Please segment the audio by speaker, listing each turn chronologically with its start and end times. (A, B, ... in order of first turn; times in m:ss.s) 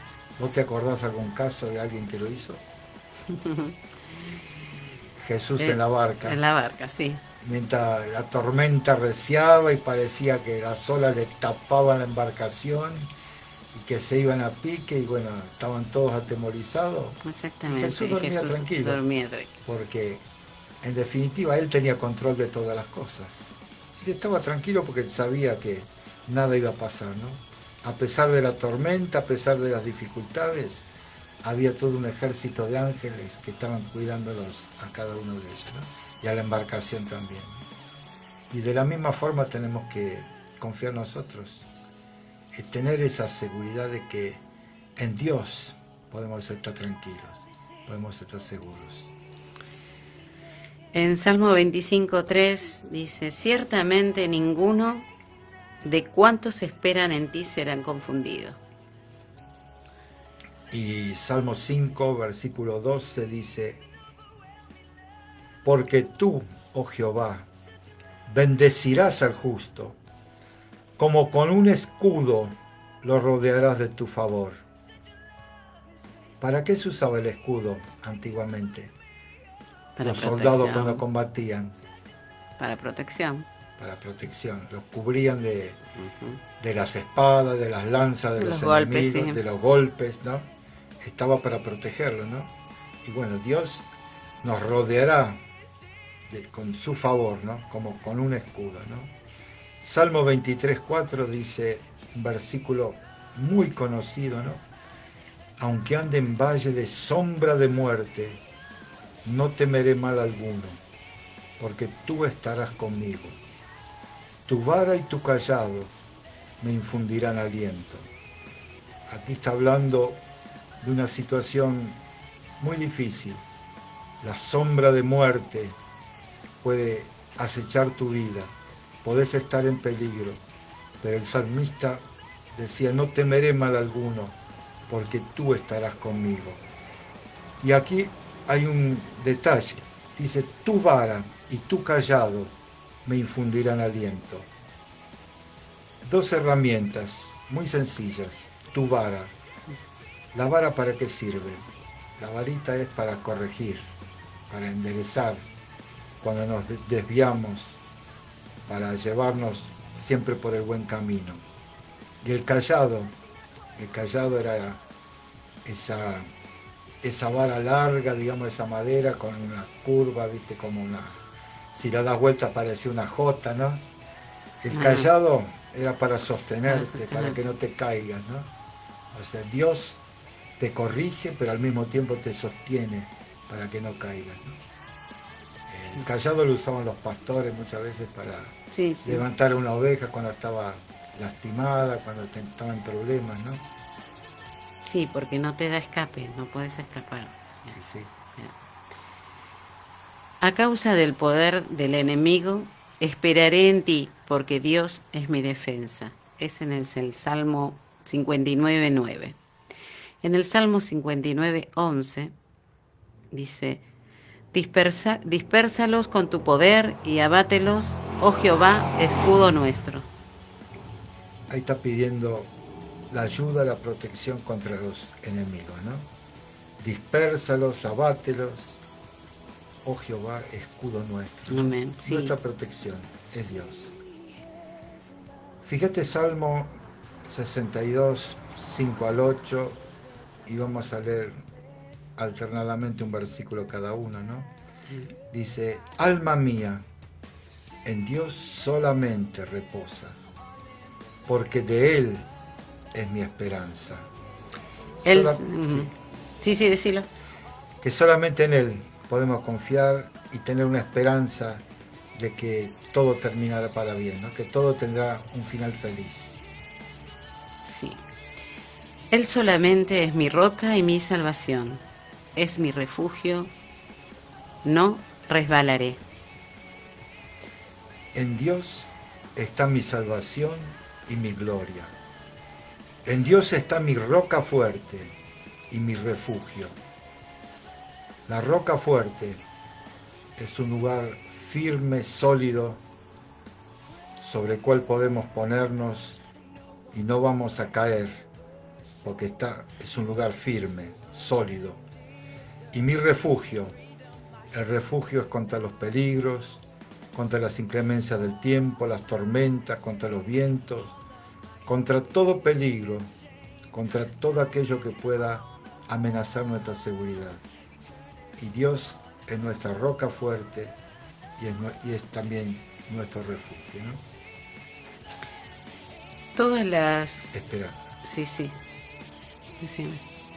0:00.4-0:02.6 A
0:03.3-0:03.7 B
0:05.2-0:06.4 A
0:05.6-0:07.2 B
0:07.4-0:13.1 A
0:13.7-0:19.0 A
0:17.2-0:19.5 B
0:19.6-0:20.2 A
0:20.8-0:30.9 A
0:31.4-0:37.6 A
0:38.5-0:41.7 A
0:42.5-0:44.4 A
0:45.0-0:49.1 A
0:50.9-0:55.1 B
0:55.8-0:58.6 B
1:00.7-1:03.8 A
1:05.6-1:07.5 A
1:08.2-1:10.0 A
1:11.0-1:14.6 A
1:16.4-1:18.9 A
1:20.0-1:21.0 B
1:20.0-1:21.8 A
1:22.6-1:23.5 B
1:23.8-1:25.8 A
1:26.0-1:26.4 B
1:26.6-1:30.5 A
1:28.4-1:29.4 B
1:31.0-1:35.4 A
1:36.3-1:39.1 A
1:39.8-1:44.6 A
1:45.6-1:48.4 A
1:49.2-1:50.8 A
1:51.6-1:53.4 A
1:54.4-1:55.9 A
1:56.6-1:58.1 A
1:59.1-2:00.2 A
2:00.8-2:02.0 A
2:02.6-2:03.4 A
2:04.2-2:05.8 A
2:06.6-2:10.4 A
2:11.0-2:12.0 A
2:12.5-2:14.4 A
2:14.9-2:16.6 A
2:17.6-2:22.5 A
2:23.0-2:24.5 A
2:26.0-2:29.3 A
2:30.3-2:33.9 A
2:34.5-2:35.4 A
2:36.2-2:37.8 A
2:38.7-2:41.4 A
2:42.2-2:43.1 A
2:43.8-2:44.8 A
2:45.6-2:46.3 A
2:47.0-2:53.9 A
2:54.6-2:58.5 A
2:54.7-2:55.1 B
2:56.7-2:57.4 B
2:59.1-3:00.0 A
3:00.6-3:04.6 A
3:05.7-3:13.6 A
3:08.7-3:09.2 B
3:14.9-3:17.7 B
3:17.7-3:18.1 A
3:20.4-3:29.4 B
3:30.2-3:32.3 B
3:33.3-3:33.8 B
3:34.5-3:40.1 B
3:41.5-3:42.5 A
3:43.1-3:46.1 A
3:46.8-3:48.8 A
3:49.8-3:53.9 A
3:51.5-3:52.3 B
3:55.6-3:59.8 A
4:00.4-4:01.4 A
4:02.2-4:04.5 A
4:05.3-4:06.8 A
4:07.8-4:10.2 A
4:11.2-4:12.3 A
4:12.9-4:14.1 A
4:15.0-4:15.9 A
4:15.0-4:15.9 B
4:16.4-4:17.1 B
4:17.8-4:26.4 A
4:27.6-4:28.0 B
4:29.1-4:31.8 B
4:32.4-4:33.5 B
4:34.6-4:36.0 B
4:38.1-4:41.9 A
4:43.0-4:45.1 A
4:45.7-4:46.8 A
4:48.3-4:49.4 A
4:50.4-4:52.8 A
4:54.2-4:56.2 A
4:56.9-4:58.2 A
4:59.0-5:01.8 A
5:02.7-5:03.8 A
5:04.5-5:06.6 A
5:07.1-5:11.0 A
5:11.6-5:13.1 A
5:13.7-5:17.4 A
5:18.4-5:20.8 A
5:21.4-5:24.0 A
5:26.4-5:27.3 B
5:27.3-5:27.8 A
5:28.0-5:28.6 B
5:29.6-5:30.0 B